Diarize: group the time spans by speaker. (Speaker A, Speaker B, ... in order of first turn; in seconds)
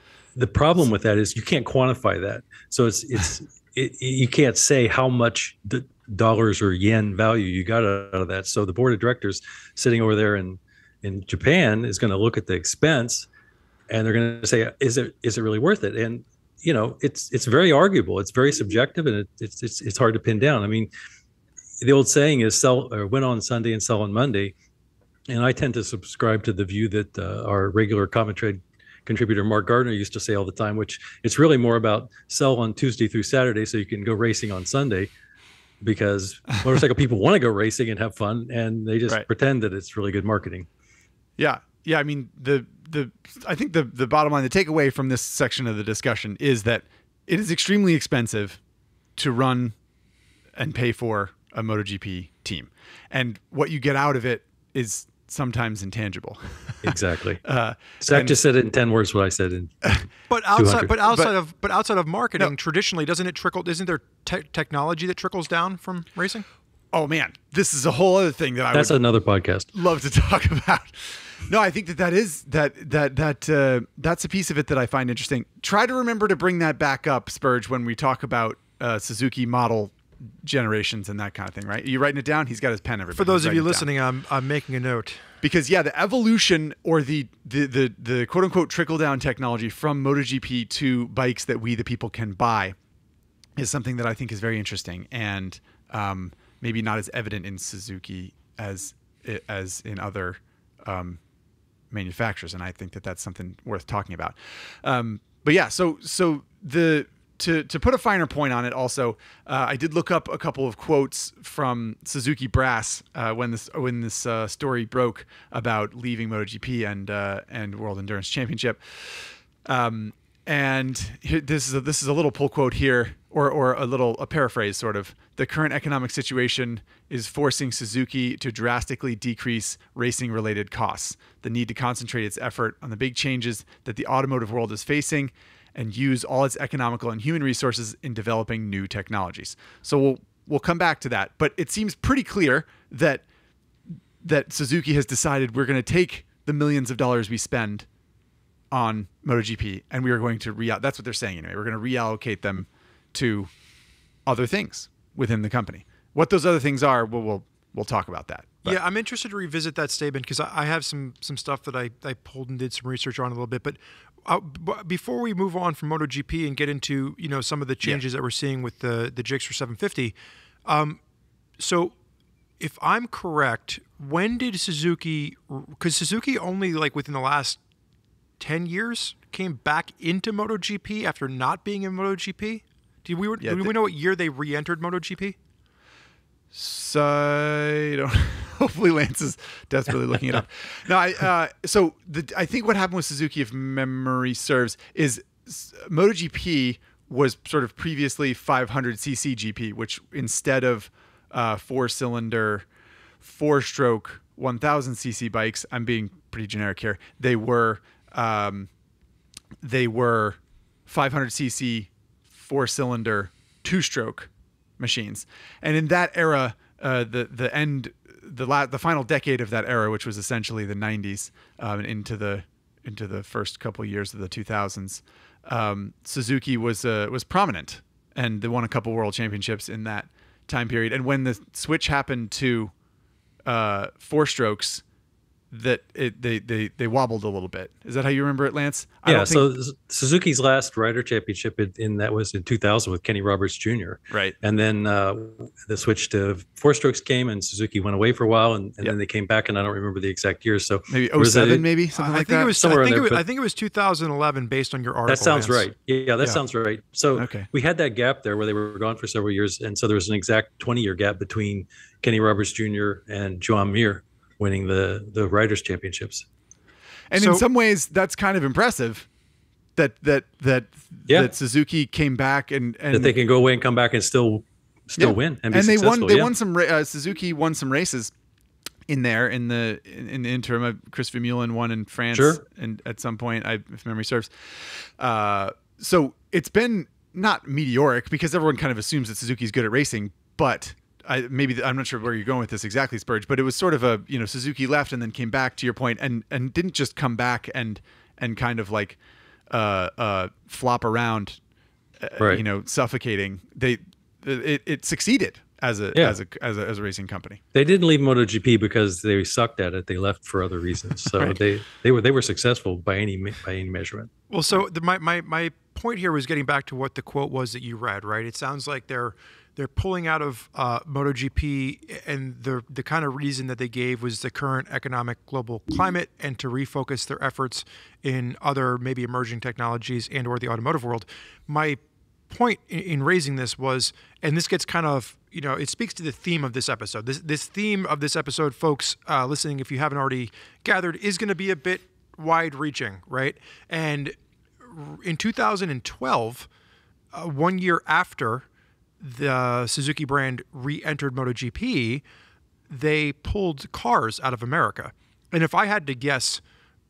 Speaker A: 0.3-13.3, 13.9-20.9, 21.8-24.5, 25.3-35.1, 35.8-40.7, 56.8-57.4, 58.0-60.0, 60.6-61.0, 68.7-69.7, 239.1-251.7, 252.6-253.2, 255.1-266.3, 272.9-276.3, 282.1-282.4, 307.5-314.1
Speaker B: 41.4-48.6, 49.2-49.8, 50.5-56.9, 57.4-58.4, 66.9-69.0, 69.7-83.9, 85.4-92.8, 93.6-101.2, 101.9-143.2, 144.2-147.9, 148.7-153.5, 154.3-158.8, 183.4-183.7, 186.5-202.7, 203.2-208.7, 209.6-232.7, 233.5-234.8, 235.5-239.5, 250.9-252.6, 257.1-257.5, 267.1-269.1, 269.8-273.1, 275.0-278.1, 278.9-299.0, 299.5-301.4, 302.0-307.4
Speaker C: 60.3-66.5, 83.1-85.2, 158.7-170.2, 170.7-171.0, 171.6-171.9, 172.6-177.6, 178.4-185.4, 251.9-255.7, 267.1-267.4, 314.3-346.5, 347.1-348.4, 349.0-352.0, 352.7-356.4